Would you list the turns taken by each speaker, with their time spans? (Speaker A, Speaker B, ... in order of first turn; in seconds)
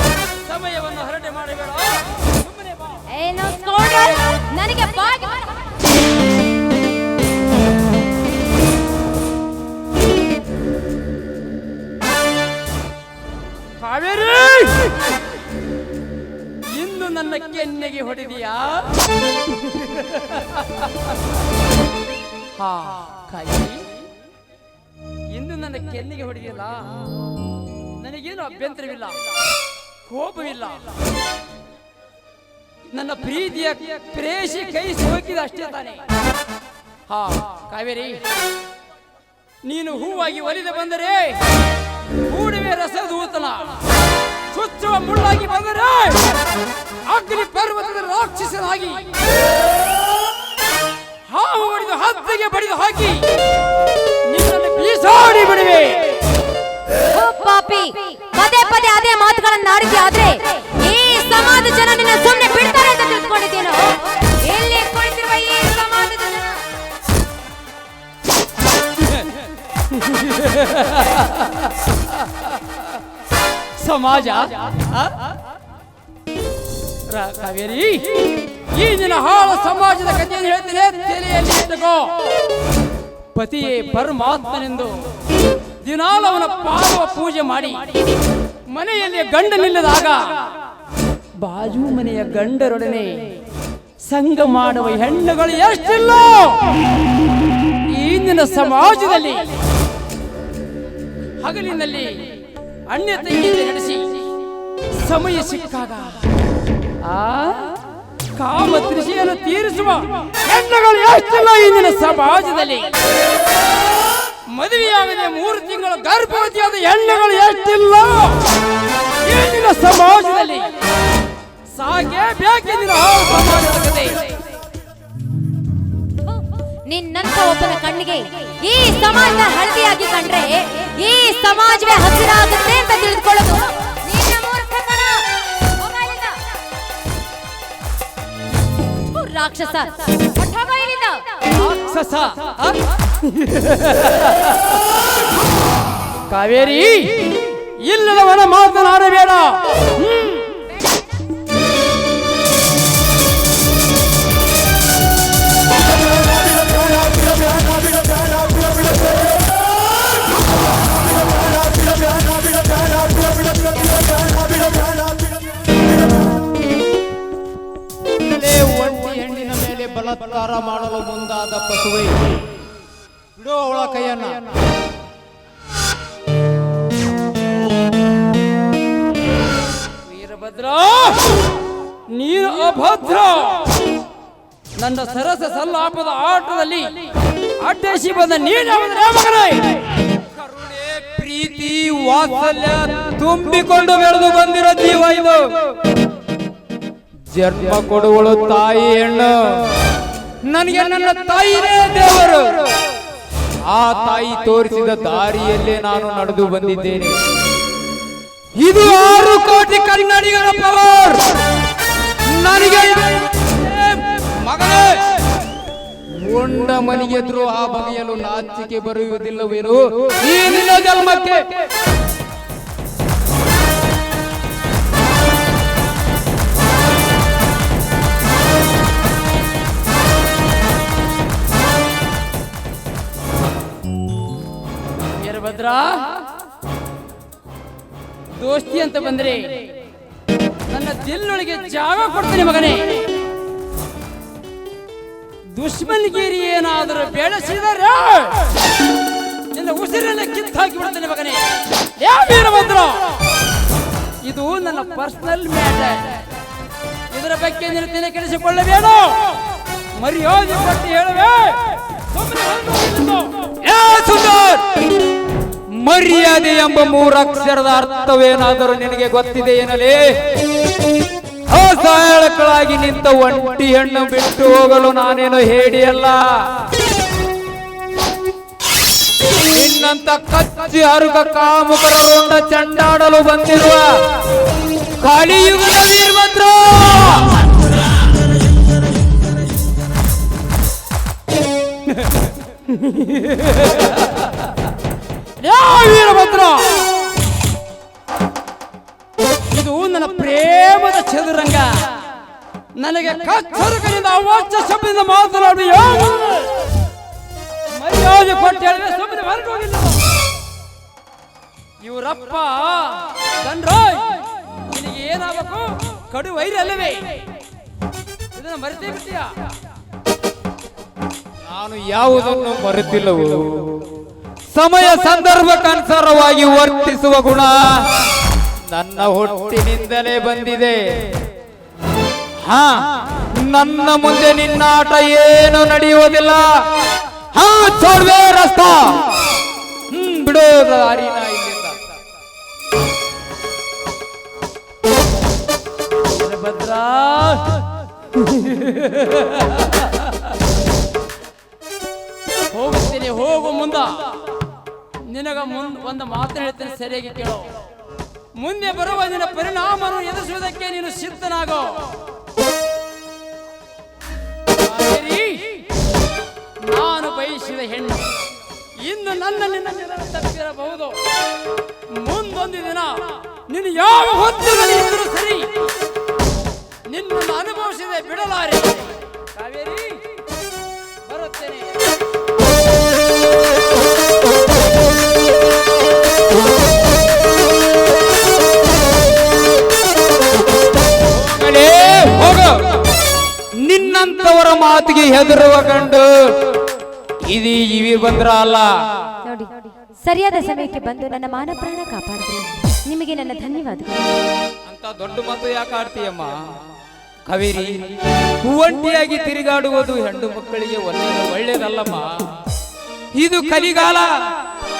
Speaker A: 0.4-3.0, 13.8-15.0, 16.7-19.0, 19.6-20.9, 22.6-23.9, 25.3-27.0, 28.0-29.3, 30.1-30.9, 32.9-36.0, 37.1-38.2, 39.6-41.4, 42.2-43.8, 44.5-46.3, 47.0-49.1, 51.3-53.4, 54.2-56.2, 70.0-71.7, 73.8-75.3, 77.1-82.2, 83.3-85.1, 85.8-88.0, 88.7-90.5, 91.4-93.3, 94.0-96.7, 97.9-99.6, 101.4-102.3, 102.9-104.2, 104.9-106.3, 107.0-107.8, 108.3-113.0, 114.5-118.5, 119.2-120.7, 121.7-124.4, 141.5-144.8, 146.3-150.4, 180.1-181.6, 182.1-183.8, 184.8-187.0, 187.6-189.9, 235.2-236.3, 238.3-239.7, 240.7-243.1, 245.5-248.6, 249.5-253.2, 254.2-256.2, 257.1-259.4, 259.9-263.4, 292.7-293.9, 295.4-297.1, 299.5-302.0, 302.7-306.7, 307.7-310.0, 311.8-317.2, 318.3-319.4, 346.1-350.1, 352.5-354.2, 355.0-357.6, 358.3-361.9, 364.6-365.6, 366.6-368.1, 368.8-371.0, 371.9-375.7, 376.9-380.1, 381.0-381.8
Speaker B: 3.1-5.7, 57.1-66.6, 126.8-136.5, 139.1-141.4, 399.2-404.0
Speaker C: 168.2-172.2, 173.4-174.5, 190.3-195.6, 197.3-199.3, 200.4-202.7, 203.7-207.2, 208.6-211.2, 212.2-215.0, 216.1-221.5, 263.5-264.8, 265.7-270.0, 271.5-276.2, 279.4-283.9, 285.0-287.4, 321.4-323.8, 324.5-327.8, 328.7-330.8, 332.4-336.5, 337.3-339.0, 339.9-341.8, 391.1-392.7, 393.6-396.1, 397.2-398.7, 404.6-406.3, 407.2-407.8, 408.4-412.2, 413.1-414.1